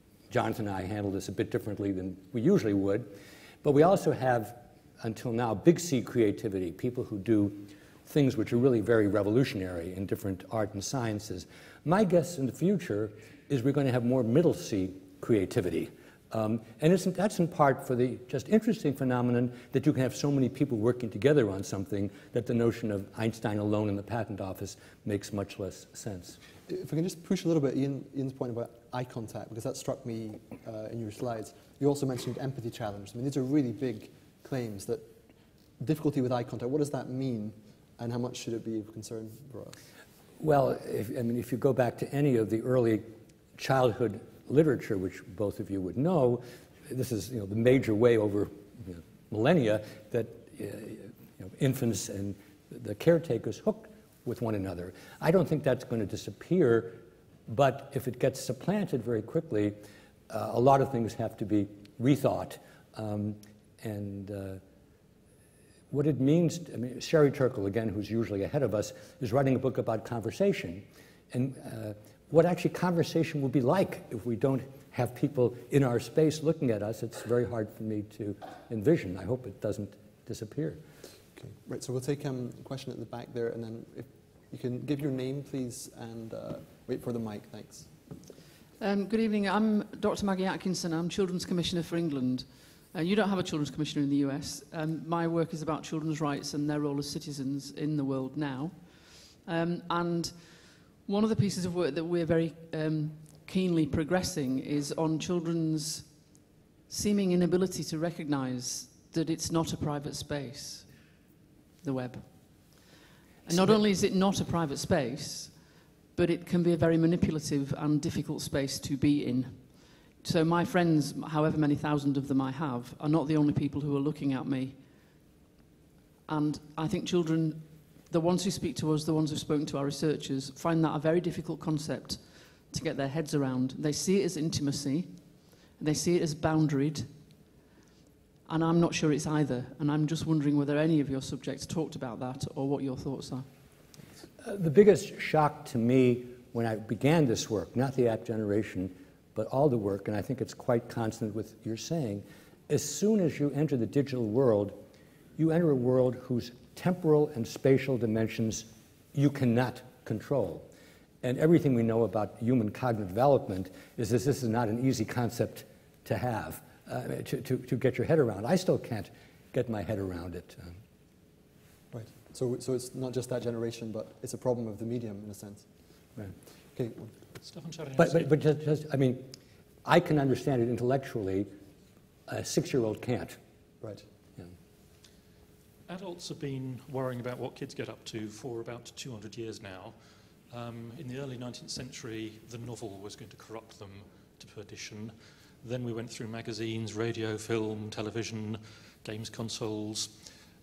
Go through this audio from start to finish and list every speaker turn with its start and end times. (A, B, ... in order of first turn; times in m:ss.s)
0:00.3-0:03.1 A
0:03.6-0:26.4 A
0:26.7-0:35.1 B
0:35.8-0:39.8 B
0:40.4-0:43.0 A
0:43.6-0:59.8 A
1:00.3-1:04.6 A
1:05.9-1:20.8 A
1:21.4-1:27.9 B
1:28.8-1:46.3 C
1:46.9-1:51.0 C
1:51.8-1:52.8 C
1:53.4-2:04.8 C
2:06.3-2:17.2 C
2:18.4-2:23.5 C
2:24.4-2:34.8 A
2:35.4-2:40.7 A
2:41.2-2:50.8 A
2:51.9-2:55.7 B
2:56.7-2:57.1 B
2:57.4-2:58.3 D
2:58.0-2:59.3 A
2:59.8-3:01.5 A
3:02.3-3:03.4 A
3:05.9-3:10.0 D
3:10.5-3:20.2 D